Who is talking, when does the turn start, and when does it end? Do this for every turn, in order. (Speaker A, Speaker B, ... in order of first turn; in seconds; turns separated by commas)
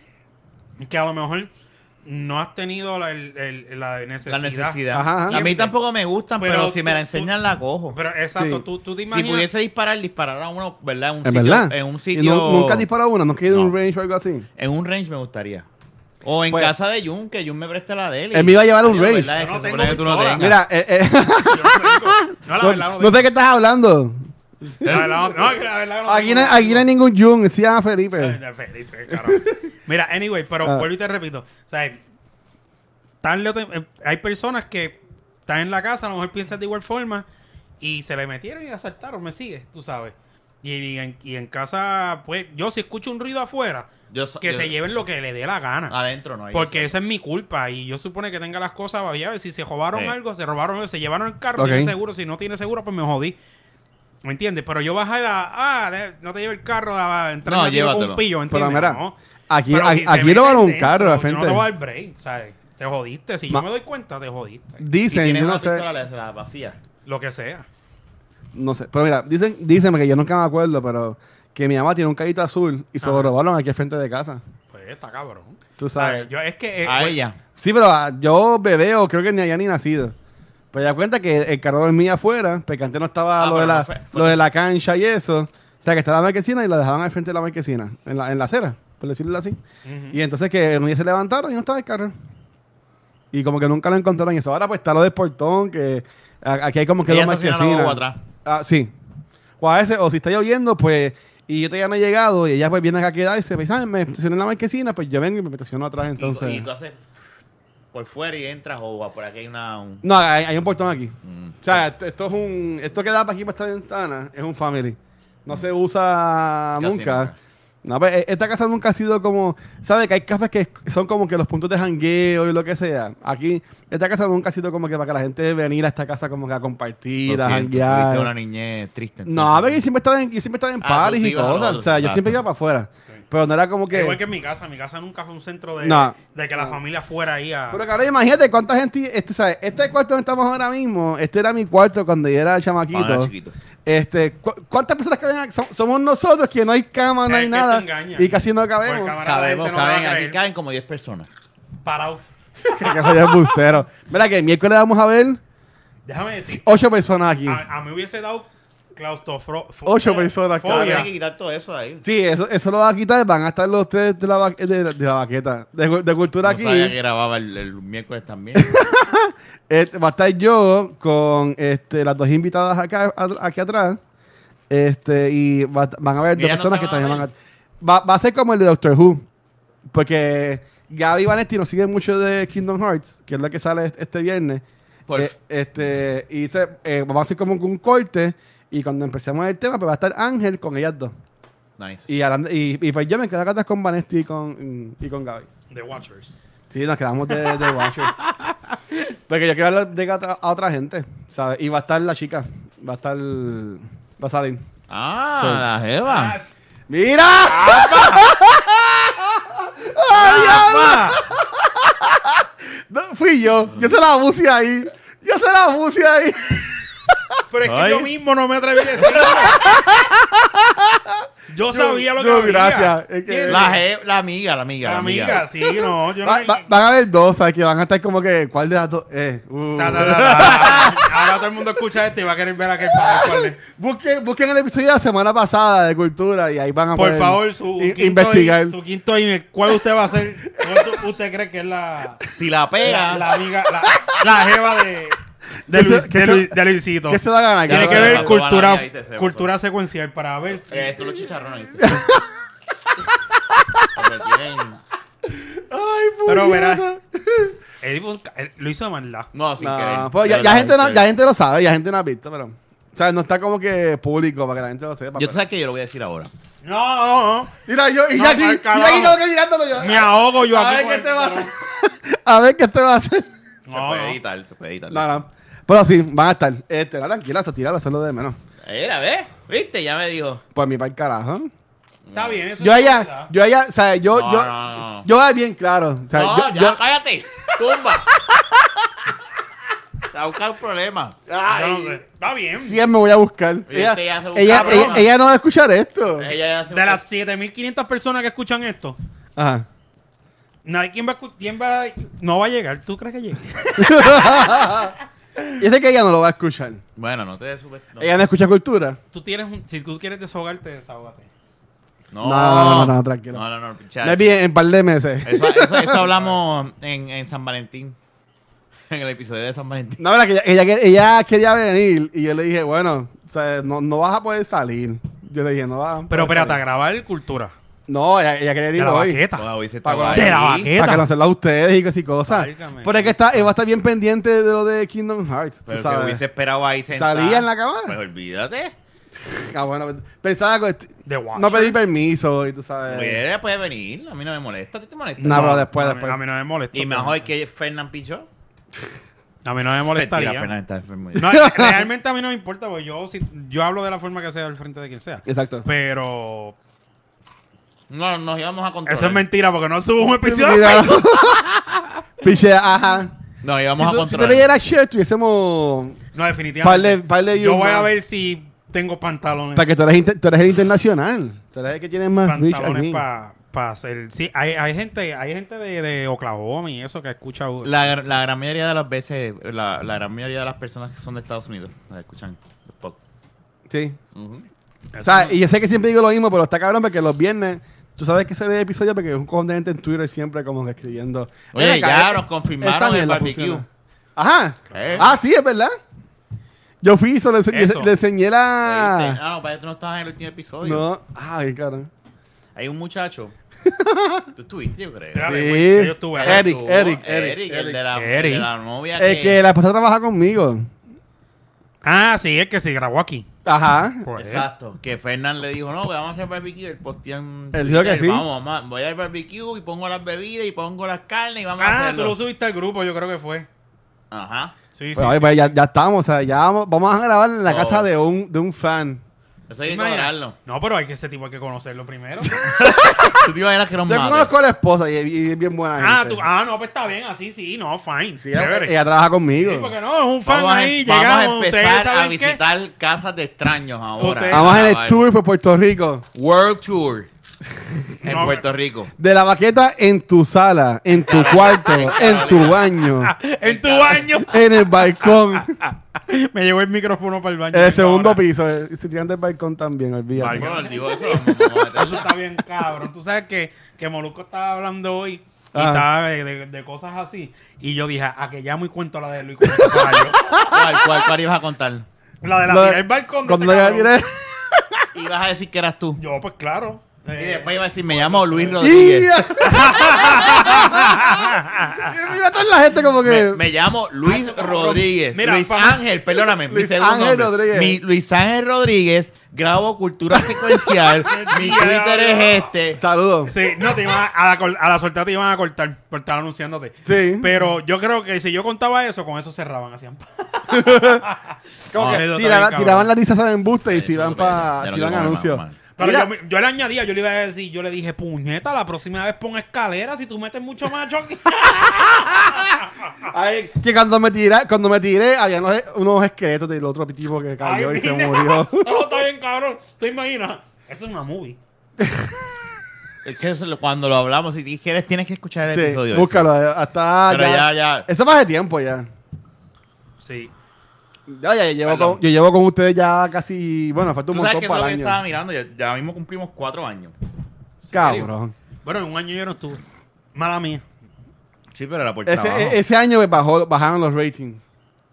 Speaker A: 0.8-1.5, Speaker A: 2.0-5.7, Speaker B: 4.3-8.0, Speaker C: 4.9-5.4, Speaker A: 6.4-7.3, Speaker A: 7.9-9.5, Speaker C: 8.4-8.6, Speaker B: 9.1-12.9, Speaker C: 11.2-14.5, Speaker B: 14.6-15.7, Speaker B: 16.2-20.6, Speaker C: 18.3-19.3, Speaker A: 19.3-20.5, Speaker C: 20.4-28.4, Speaker A: 21.5-23.3, Speaker A: 24.8-26.9, Speaker A: 28.2-32.0, Speaker C: 29.1-29.6, Speaker A: 33.2-37.2, Speaker A: 37.8-43.9, Speaker B: 44.1-44.8, Speaker A: 44.4-46.0, Speaker B: 45.9-47.0, Speaker A: 46.5-53.4, Speaker C: 51.6-51.9, Speaker A: 54.2-59.2, Speaker B: 57.5-58.2, Speaker C: 58.5-61.7, Speaker A: 59.7-64.8, Speaker C: 64.8-65.8, Speaker B: 65.1-66.8, Speaker A: 67.1-67.7, Speaker C: 68.5-74.4, Speaker A: 73.0-73.3, Speaker A: 74.7-77.2, Speaker C: 75.8-76.3, Speaker B: 76.8-77.4, Speaker C: 77.6-80.2, Speaker C: 80.7-89.6, Speaker B: 83.4-84.4, Speaker A: 89.8-90.2, Speaker C: 90.1-92.1, Speaker C: 93.3-98.9, Speaker B: 97.1-98.2, Speaker C: 99.6-106.7, Speaker B: 106.2-107.0, Speaker B: 107.9-110.0, Speaker C: 110.0-117.3, Speaker B: 111.2-111.8, Speaker B: 116.8-117.3, Speaker C: 117.8-128.3, Speaker B: 127.3-129.8, Speaker C: 129.3-134.2, Speaker B: 130.8-132.4, Speaker A: 133.9-137.8, Speaker C: 135.8-136.8, Speaker C: 137.7-143.3, Speaker B: 142.9-143.5, Speaker C: 143.9-149.2, Speaker A: 147.3-150.4, Speaker B: 149.2-151.3, Speaker A: 151.8-153.5, Speaker C: 152.7-155.4, Speaker A: 156.1-156.8, Speaker C: 156.5-157.6, Speaker A: 157.5-161.1, Speaker C: 159.9-161.1, Speaker B: 160.7-162.0, Speaker C: 162.0-166.9, Speaker B: 166.4-168.8, Speaker C: 168.6-174.0, Speaker C: 174.7-179.2, Speaker B: 176.3-177.3, Speaker C: 179.9-184.6, Speaker B: 185.1-185.3, Speaker C: 185.2-191.1, Speaker B: 191.8-192.1, Speaker C: 192.1-195.5, Speaker A: 195.7-196.4, Speaker C: 196.7-198.2, Speaker A: 197.5-198.7, Speaker C: 199.3-204.6, Speaker B: 204.9-206.4, Speaker C: 205.4-205.6, Speaker A: 206.1-206.5, Speaker C: 206.9-217.2, Speaker A: 207.5-208.3, Speaker A: 210.1-211.2, Speaker A: 217.5-219.6, Speaker B: 217.7-218.1, Speaker C: 218.9-223.8, Speaker A: 221.5-223.8, Speaker B: 223.5-225.5, Speaker A: 224.8-226.7, Speaker C: 225.9-231.3, Speaker A: 229.8-233.6, Speaker C: 232.9-238.8, Speaker A: 236.9-242.2, Speaker C: 240.6-241.0, Speaker B: 242.3-243.2, Speaker A: 242.8-245.2, Speaker C: 243.9-244.2, Speaker A: 245.7-250.9, Speaker C: 245.7-248.3, Speaker B: 247.7-249.5, Speaker B: 250.6-252.0, Speaker C: 251.8-252.2, Speaker C: 253.5-253.9, Speaker B: 253.9-254.8, Speaker C: 255.3-257.6, Speaker A: 256.3-256.9, Speaker A: 257.8-259.3, Speaker B: 259.3-261.1, Speaker C: 259.6-265.4, Speaker B: 265.2-266.3, Speaker A: 266.6-267.5, Speaker C: 267.7-273.3, Speaker A: 268.1-269.2, Speaker A: 269.8-271.5, Speaker A: 273.7-274.2, Speaker B: 273.7-275.1, Speaker C: 274.9-278.4, Speaker B: 278.6-280.4, Speaker C: 280.6-281.5, Speaker B: 282.1-282.4, Speaker A: 282.1-283.3, Speaker C: 282.6-286.8, Speaker B: 284.1-285.1, Speaker B: 286.1-288.2, Speaker B: 290.1-291.2, Speaker C: 291.3-292.0, Speaker A: 291.5-292.8, Speaker C: 292.5-296.3, Speaker B: 293.7-295.1, Speaker A: 294.5-295.1, Speaker B: 296.2-297.0, Speaker A: 296.7-299.0, Speaker C: 299.4-299.7, Speaker A: 300.6-304.7, Speaker C: 303.8-304.9, Speaker C: 305.5-306.8, Speaker B: 307.0-308.2, Speaker C: 308.0-309.0, Speaker A: 309.1-311.3, Speaker B: 312.1-314.4, Speaker C: 312.2-313.4, Speaker C: 314.0-316.1, Speaker B: 315.2-318.0, Speaker B: 318.9-320.0, Speaker C: 320.0-326.6, Speaker A: 326.1-327.5, Speaker C: 327.9-329.2, Speaker A: 328.8-329.5, Speaker B: 329.4-330.7, Speaker C: 329.8-336.2, Speaker A: 330.1-331.1, Speaker A: 332.3-333.1, Speaker B: 335.7-338.8, Speaker C: 336.9-338.0, Speaker C: 339.2-343.2, Speaker A: 341.1-341.8, Speaker B: 342.9-345.6, Speaker A: 345.2-347.3, Speaker C: 345.2-346.2, Speaker B: 346.7-348.3, Speaker A: 349.4-350.5, Speaker B: 349.9-351.3, Speaker C: 351.1-351.8, Speaker A: 351.2-356.6, Speaker C: 355.3-355.7, Speaker B: 357.9-359.2, Speaker A: 358.9-361.4, Speaker C: 360.1-361.5, Speaker C: 362.2-363.1, Speaker B: 363.4-364.5, Speaker C: 363.8-366.0, Speaker A: 366.1-369.7, Speaker C: 366.6-367.9, Speaker C: 369.6-373.0, Speaker A: 372.2-377.9, Speaker B: 377.6-383.0, Speaker C: 383.7-384.0, Speaker B: 384.1-384.5, Speaker A: 384.9-385.4, Speaker C: 385.0-393.6, Speaker B: 391.5-393.6, Speaker C: 394.2-395.8, Speaker A: 394.7-395.1, Speaker B: 394.7-395.1, Speaker C: 396.8-399.2, Speaker A: 397.5-397.9, Speaker B: 398.6-400.9, Speaker C: 400.6-401.9, Speaker B: 402.6-403.3, Speaker C: 403.6-404.3, Speaker B: 404.4-405.3, Speaker A: 405.1-406.5, Speaker C: 405.2-407.8, Speaker B: 406.2-409.4, Speaker A: 407.9-408.5, Speaker C: 409.0-410.7, Speaker A: 411.8-413.3, Speaker C: 413.4-414.1, Speaker A: 414.0-414.5, Speaker B: 414.2-422.2, Speaker C: 417.5-418.2, Speaker A: 421.6-423.5, Speaker B: 424.1-424.5, Speaker A: 424.8-425.5, Speaker C: 425.0-429.0, Speaker B: 427.5-427.9, Speaker B: 429.5-430.4, Speaker A: 429.7-432.4, Speaker C: 432.3-433.3, Speaker B: 432.5-434.3, Speaker C: 433.9-436.2, Speaker A: 435.8-438.7, Speaker C: 438.2-439.7, Speaker A: 439.4-442.4, Speaker B: 440.3-445.0, Speaker A: 444.0-444.7, Speaker C: 444.3-446.1, Speaker B: 446.1-447.1, Speaker A: 448.0-448.4, Speaker B: 448.0-448.9, Speaker C: 449.0-453.1, Speaker B: 451.1-452.8, Speaker A: 453.0-454.4, Speaker B: 453.4-454.2, Speaker C: 454.2-455.6, Speaker A: 455.4-458.2, Speaker C: 457.5-460.5, Speaker A: 460.2-470.2, Speaker B: 460.3-462.1, Speaker C: 465.5-465.9, Speaker C: 469.4-471.1, Speaker B: 470.4-471.9, Speaker A: 472.2-473.9, Speaker C: 472.5-474.9, Speaker B: 474.9-476.0, Speaker A: 476.0-478.6, Speaker B: 477.1-479.2, Speaker C: 478.6-483.4, Speaker A: 479.4-482.0, Speaker B: 483.0-492.8, Speaker A: 484.1-485.8, Speaker C: 486.5-487.8, Speaker C: 490.1-491.1, Speaker A: 491.0-492.5, Speaker C: 492.8-493.4, Speaker A: 493.3-502.9, Speaker C: 496.9-497.4, Speaker C: 500.5-501.1, Speaker C: 501.7-506.1, Speaker B: 501.7-502.0, Speaker B: 503.7-505.6, Speaker A: 505.8-512.7, Speaker C: 511.8-512.4, Speaker C: 513.0-518.9, Speaker A: 517.4-521.4, Speaker C: 521.8-522.1, Speaker B: 523.0-526.3, Speaker C: 525.5-528.9, Speaker B: 527.1-527.9, Speaker A: 530.0-530.3, Speaker C: 531.1-535.0, Speaker B: 531.6-532.0, Speaker B: 534.1-536.9, Speaker A: 537.6-538.1, Speaker C: 537.7-538.3, Speaker A: 538.6-539.6, Speaker A: 540.1-540.6, Speaker B: 541.5-542.6, Speaker C: 542.1-544.5